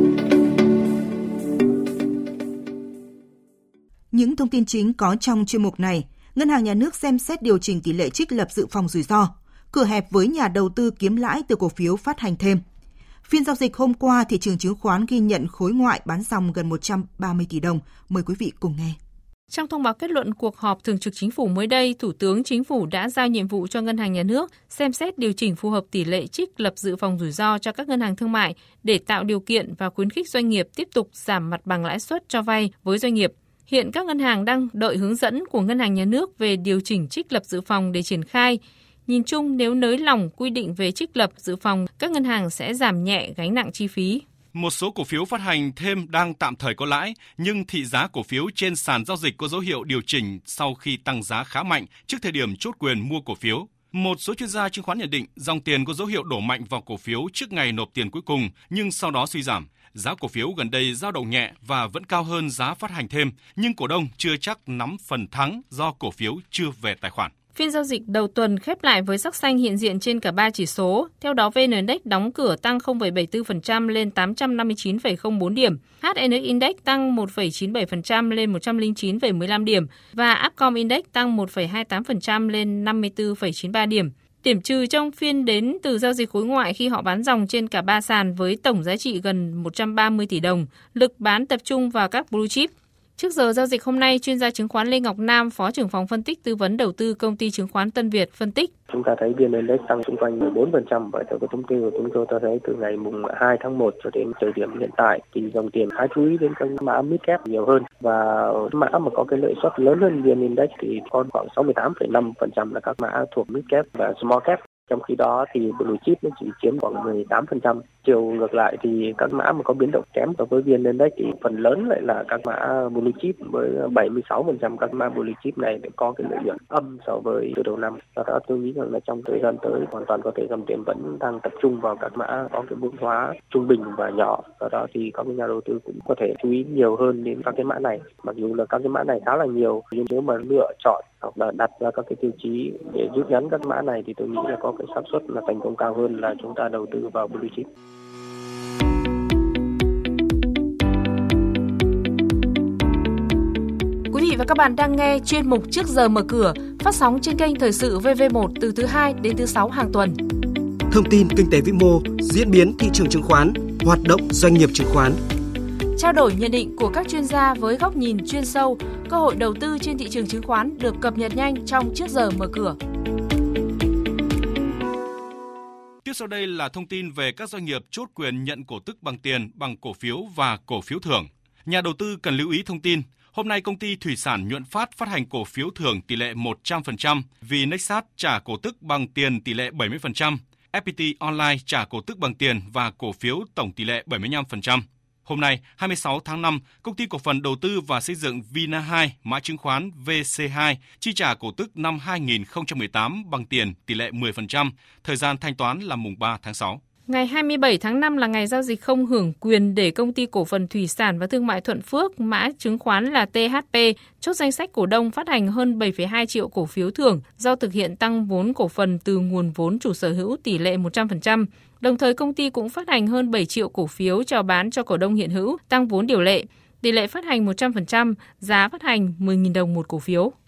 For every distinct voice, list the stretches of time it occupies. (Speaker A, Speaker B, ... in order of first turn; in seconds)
Speaker A: 4.1-12.6, 13.2-19.0
Speaker B: 19.5-44.2, 67.5-98.7, 154.1-160.1, 166.0-172.8, 207.1-230.3
Speaker C: 44.5-67.3, 176.0-206.8
Speaker D: 98.9-147.7
Speaker E: 160.9-165.2